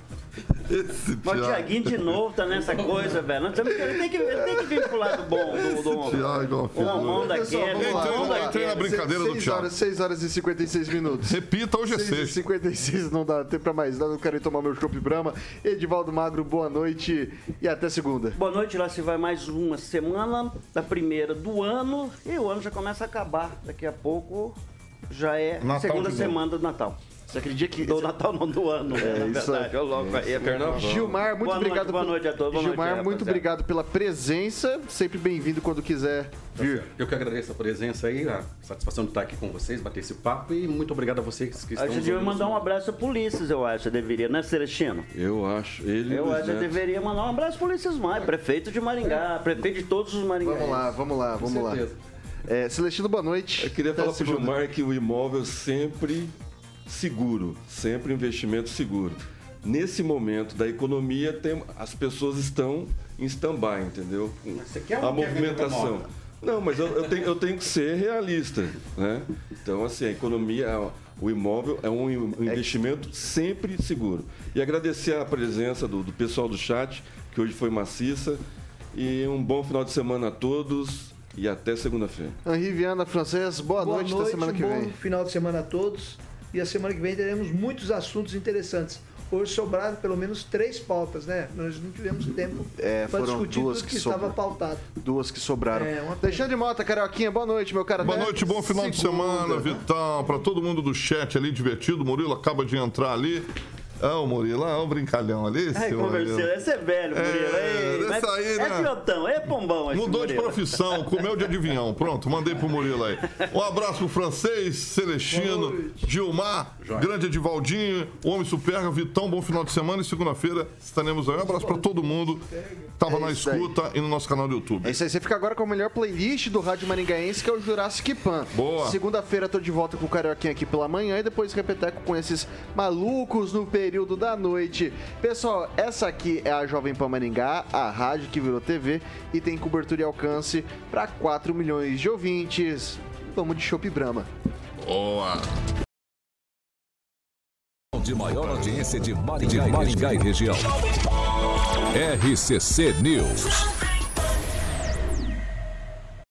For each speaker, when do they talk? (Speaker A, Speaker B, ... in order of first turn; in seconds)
Speaker A: 0.7-2.1, 5.5-9.7, 11.2-12.3, 25.6-26.4, 98.0-103.5, 104.0-106.5, 107.1-108.9, 109.9-124.9, 128.5-129.0, 144.8-145.5
Speaker B: 1.2-8.6, 18.3-24.6, 25.1-27.0, 27.8-33.4, 41.8-45.1, 46.1-50.9, 105.7-111.2
Speaker C: 6.7-11.4, 11.9-18.4, 27.3-28.1, 28.9-29.7, 30.7-36.9, 50.4-51.8, 52.5-54.5, 72.5-72.7, 82.4-84.9, 92.8-94.3, 95.0-99.8, 123.1-123.7, 124.8-144.3
Speaker D: 29.9-31.2, 45.1-46.8, 53.6-56.3, 56.9-78.4, 78.9-82.4
Speaker E: 36.5-42.6, 51.4-52.0, 64.5-66.1, 116.8-117.1
Speaker F: 83.8-94.8, 95.7-96.5, 115.3-116.1, 121.4-122.9
Speaker G: 147.9-150.7, 151.9-153.7